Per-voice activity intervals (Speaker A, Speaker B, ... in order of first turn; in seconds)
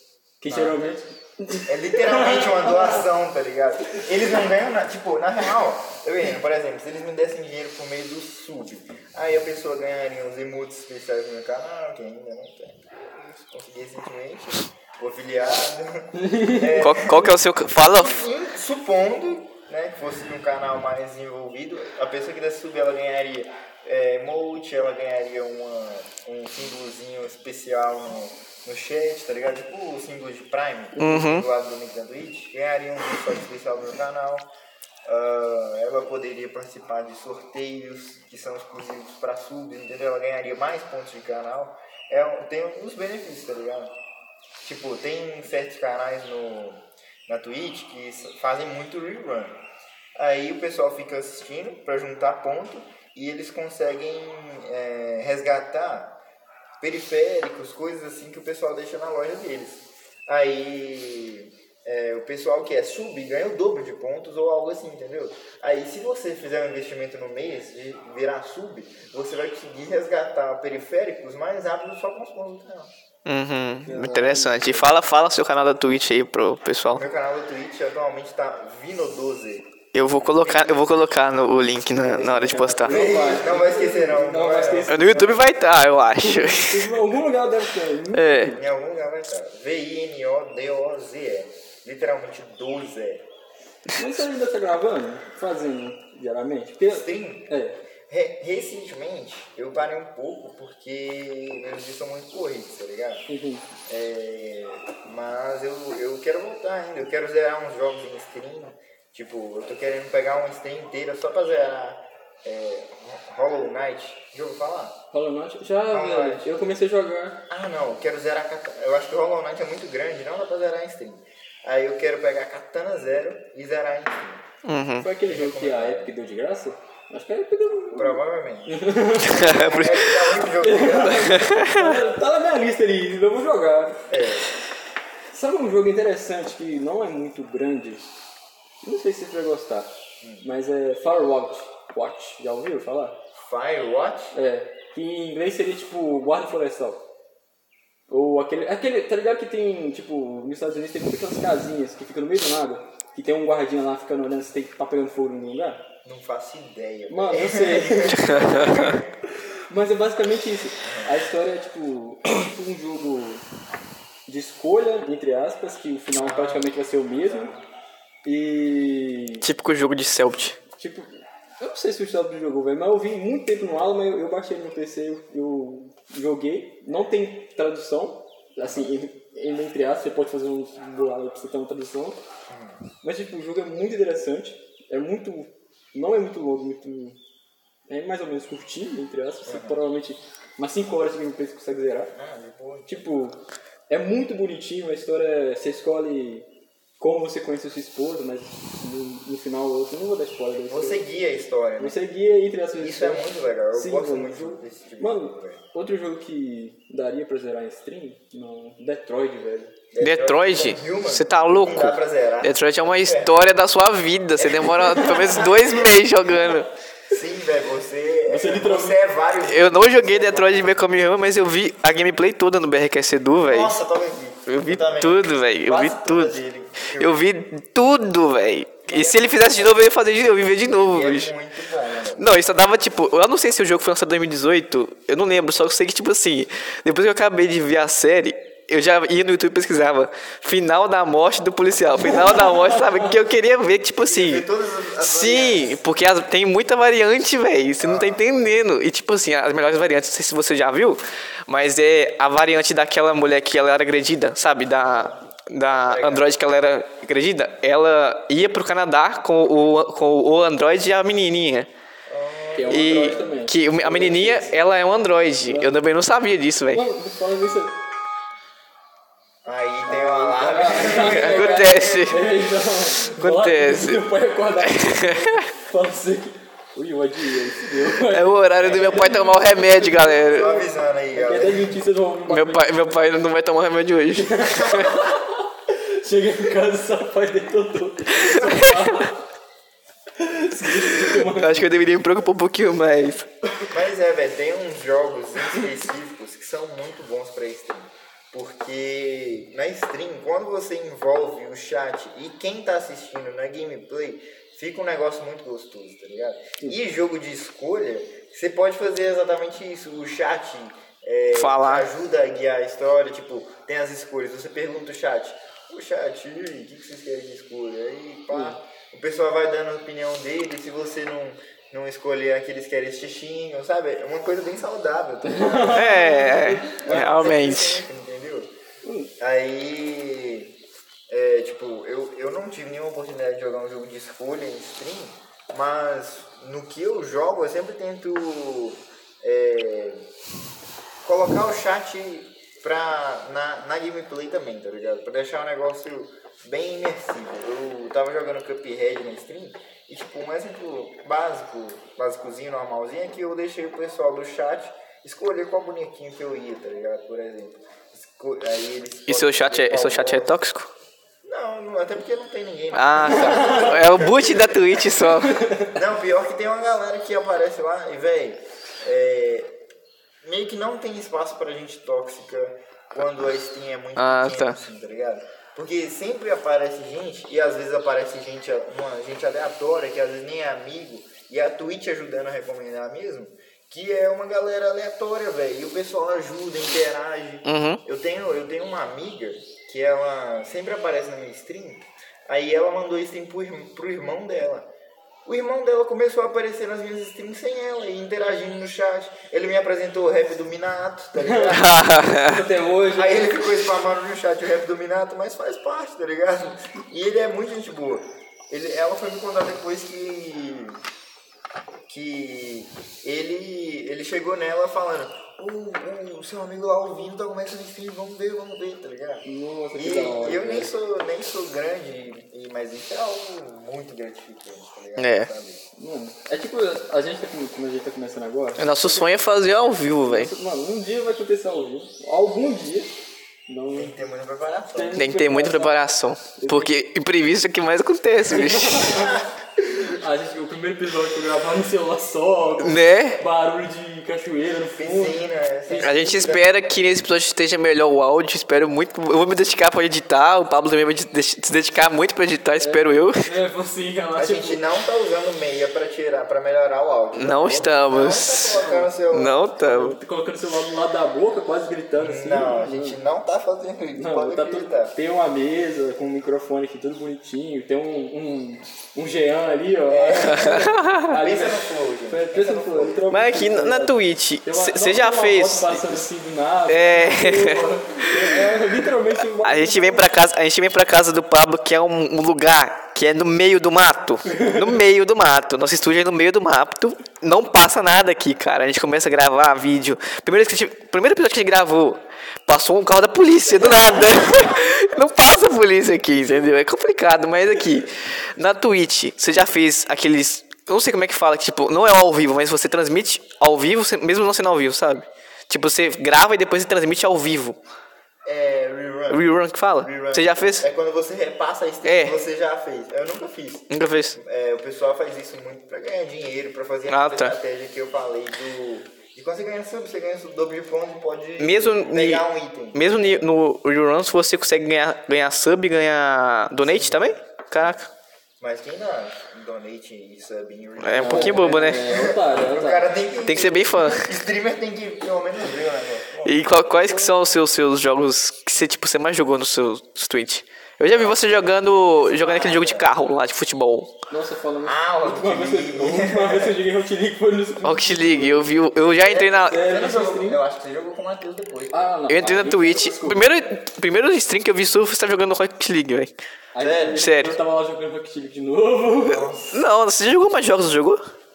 Speaker A: 0.4-3.0, 16.1-17.1, 73.8-74.9, 82.0-85.4, 86.2-88.6, 94.0-97.8, 103.3-103.6, 115.1-117.4, 125.0-129.5, 130.6-134.0, 135.3-138.1, 138.8-139.9, 140.4-143.2, 144.3-147.0, 148.1-155.8, 157.1-163.4, 164.3-167.5, 168.2-169.5, 170.8-171.1, 171.6-182.2, 183.0-187.2, 187.9-192.1, 192.9-196.5, 197.0-201.0, 201.8-209.8, 214.5-215.5, 218.3-219.0, 242.0-243.0, 262.6-264.5, 265.5-265.8, 266.7-267.7, 269.9-282.9, 284.2-289.2, 290.2-291.7, 318.3-318.6, 325.2-327.2, 328.8-329.1, 363.1-363.8, 365.0-365.8, 401.2-403.4, 419.2-420.7, 425.8-428.7, 430.1-432.9, 433.5-433.9, 434.7-435.8, 436.4-436.7, 438.3-446.1, 452.6-454.6, 459.6-463.0, 463.9-480.1, 484.3-484.8, 531.0-532.9, 544.1-548.6, 549.3-550.4, 551.7-553.3, 556.5-559.2
Speaker B: 0.5-0.8, 1.7-12.8, 13.4-34.5, 35.1-43.9, 44.6-49.6, 50.2-56.2, 56.8-72.9, 76.9-80.9, 82.8-84.9, 88.5-93.3, 96.8-97.5, 98.1-103.2, 103.9-115.0, 115.9-116.5, 117.5-124.5, 125.2-126.1, 127.9-131.4, 134.1-134.5, 140.2-140.5, 143.4-144.3, 156.1-159.1, 160.8-161.1, 166.1-166.7, 167.3-167.6, 182.5-182.8, 189.5-189.8, 192.1-193.1, 200.7-202.0, 202.8-205.6, 209.9-213.3, 214.4-215.7, 217.1-220.8, 223.4-227.3, 228.9-229.8, 230.7-232.4, 244.0-245.8, 247.8-248.5, 254.8-256.3, 262.1-264.5, 269.4-272.1, 280.2-281.8, 293.7-328.5, 329.2-330.5, 331.1-340.1, 341.0-360.4, 361.2-365.0, 365.7-369.6, 370.2-394.7, 395.3-402.2, 402.9-410.8, 411.9-425.6, 433.7-435.1, 438.9-439.3, 444.8-446.6, 454.2-459.3, 461.9-464.9, 469.9-473.1, 508.2-523.3, 526.6-527.8, 528.4-536.6, 540.9-541.4, 542.0-542.9, 544.6-546.6, 549.0-551.9, 556.6-557.1, 559.0-559.6
Speaker C: 16.8-18.2, 31.0-31.4, 73.2-77.1, 79.9-83.0, 84.9-86.9, 88.1-88.5, 124.7-125.1, 129.2-130.1, 131.1-132.0, 158.1-159.0, 169.4-170.6, 210.0-216.7, 219.4-223.8, 224.5-226.4, 227.0-231.3, 232.2-244.4, 245.0-261.7, 262.7-266.8, 270.9-272.2, 273.1-274.0, 274.6-275.5, 278.1-280.5, 282.3-285.0, 288.2-288.8, 290.8-293.3, 311.3-311.9, 325.7-327.8, 359.1-360.7, 362.7-365.4, 374.0-374.6, 387.5-387.8, 401.5-402.4, 425.0-425.3, 428.6-430.3, 435.0-439.1, 442.6-443.2, 445.8-453.3, 457.1-460.0, 470.3-471.1, 473.1-476.0, 476.7-478.6, 479.3-507.6, 509.1-510.6, 511.8-512.1, 513.7-514.2, 516.9-517.4, 521.4-527.9, 530.8-531.9, 533.3-534.1, 536.2-543.9, 547.6-549.6, 552.1-556.1, 557.0-557.4, 559.5-561.0